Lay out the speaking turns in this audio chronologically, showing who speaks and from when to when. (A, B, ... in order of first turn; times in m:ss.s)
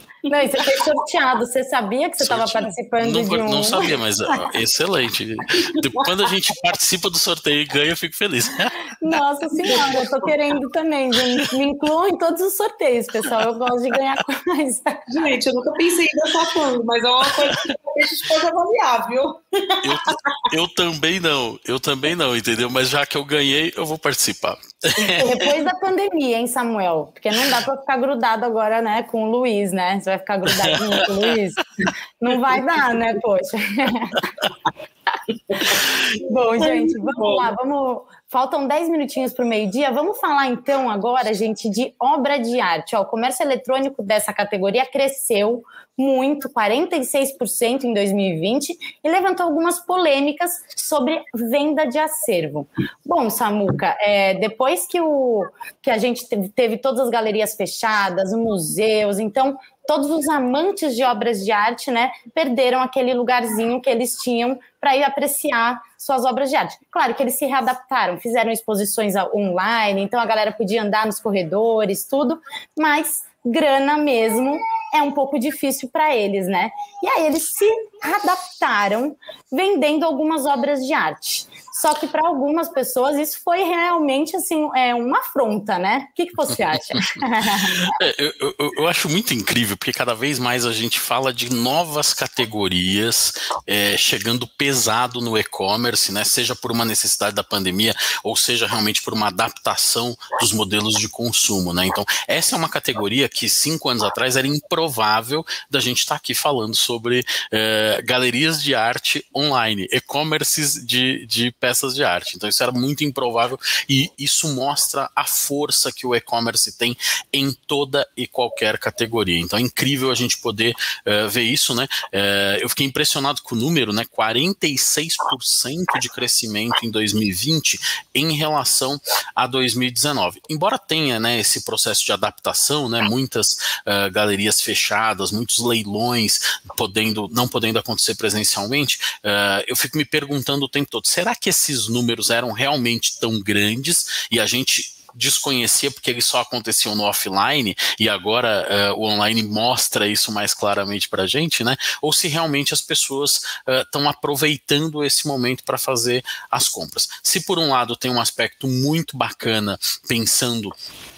0:00.3-0:03.9 A
0:02.2-0:08.8 B
0:05.8-0:06.0 C
0:09.0-0:15.1 A
0:15.1-0:20.4 C
0:17.3-0:17.6 B
0:19.8-0:25.5 B
0:25.0-0:31.6 A
0:30.7-0:31.1 B
0:32.2-0:34.2 A
0:36.2-1:28.0 A
0:36.6-0:37.5 C
1:26.5-2:40.8 B